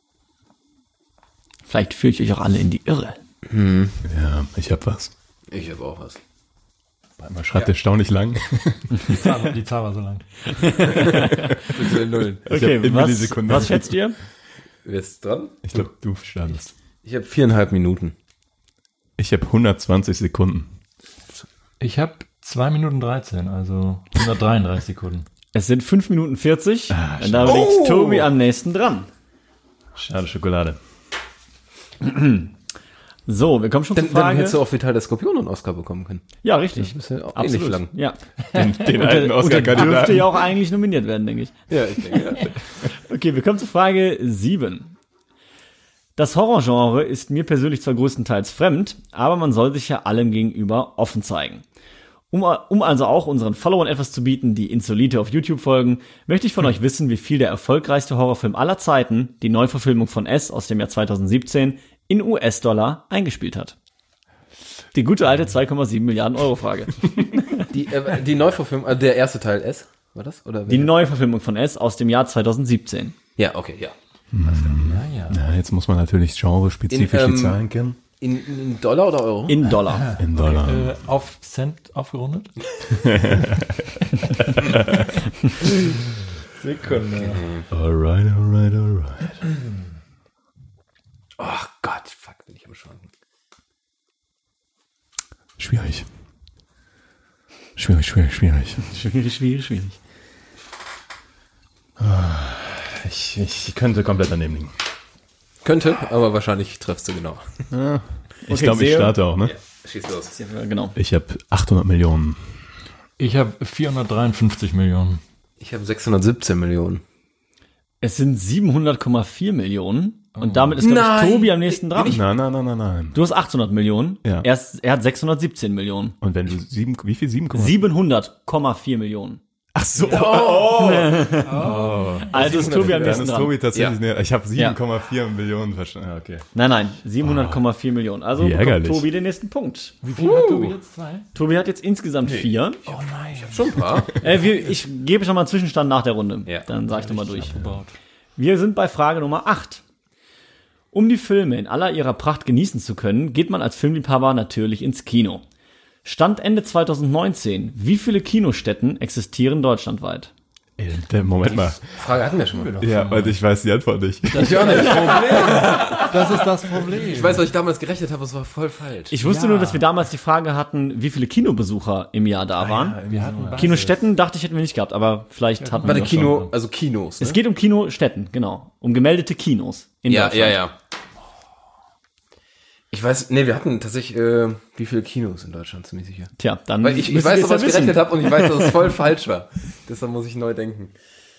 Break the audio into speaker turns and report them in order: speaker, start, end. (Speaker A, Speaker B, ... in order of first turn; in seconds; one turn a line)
Speaker A: 1.7-3.2
Speaker B: 3.5-4.0
Speaker C: 4.0-5.1
Speaker B: 5.5-6.2
Speaker C: 7.2-9.1
Speaker D: 9.0-10.5
Speaker A: 10.5-11.7
Speaker B: 11.2-12.5
Speaker C: 12.5-14.0
Speaker A: 12.5-14.2
Speaker B: 14.8-15.6
Speaker C: 15.6-16.7
Speaker B: 17.0-18.1
Speaker C: 19.2-20.7
Speaker D: 21.8-25.3
Speaker A: 25.5-29.1
Speaker C: 26.9-27.7
Speaker B: 27.4-28.3
Speaker C: 29.9-30.8
Speaker A: 32.0-32.5
Speaker A: 33.3-34.6
Speaker B: 33.9-37.9
Speaker A: 36.4-41.5
Speaker C: 38.5-40.5
Speaker B: 41.7-42.5
Speaker A: 42.1-44.9
Speaker A: 46.2-51.6
Speaker A: 52.3-63.8
Speaker A: 64.9-67.6
Speaker B: 67.7-71.0
Speaker A: 70.7-73.2
Speaker B: 73.4-74.0
Speaker C: 74.3-78.0
Speaker D: 74.5-75.4
Speaker B: 76.9-77.6
Speaker B: 78.2-79.7
Speaker A: 79.5-80.2
Speaker D: 80.0-82.6
Speaker C: 80.1-80.9
Speaker C: 82.9-85.1
Speaker D: 86.6-87.4
Speaker B: 87.2-87.7
Speaker C: 87.7-89.4
Speaker B: 91.4-93.1
Speaker C: 95.6-96.1
Speaker C: 97.8-98.9
Speaker A: 98.9-100.0
Speaker C: 102.0-104.8
Speaker B: 105.6-107.5
Speaker C: 107.7-109.5
Speaker A: 108.5-109.2
Speaker B: 109.5-110.3
Speaker A: 110.3-111.0
Speaker C: 111.0-112.4
Speaker D: 113.2-115.2
Speaker B: 115.6-117.0
Speaker A: 118.0-122.2
Speaker D: 120.4-120.8
Speaker B: 120.8-122.2
Speaker C: 122.0-123.2
Speaker A: 123.1-126.2
Speaker C: 126.2-127.8
Speaker A: 127.5-129.4
Speaker C: 129.8-136.5
Speaker B: 130.0-131.7
Speaker A: 130.7-131.7
Speaker D: 131.4-132.4
Speaker A: 132.3-133.6
Speaker B: 132.3-134.0
Speaker A: 136.6-140.0
Speaker C: 137.2-137.6
Speaker C: 138.4-139.1
Speaker D: 140.0-141.3
Speaker B: 140.2-140.8
Speaker A: 141.3-142.9
Speaker D: 142.9-143.9
Speaker B: 143.4-144.2
Speaker A: 144.2-147.6
Speaker D: 146.9-147.9
Speaker A: 148.4-149.8
Speaker A: 150.9-155.4
Speaker A: 156.0-160.3
Speaker C: 160.8-161.8
Speaker B: 161.8-162.8
Speaker D: 162.5-163.4
Speaker C: 162.8-164.7
Speaker D: 164.3-167.5
Speaker B: 164.3-169.2
Speaker A: 164.8-165.2
Speaker A: 169.1-173.0
Speaker D: 169.2-169.9
Speaker C: 172.6-173.8
Speaker D: 173.1-174.0
Speaker A: 173.6-176.3
Speaker D: 175.6-176.5
Speaker B: 175.8-177.4
Speaker A: 177.2-180.7
Speaker B: 180.1-180.8
Speaker B: 182.9-190.9
Speaker A: 186.4-188.8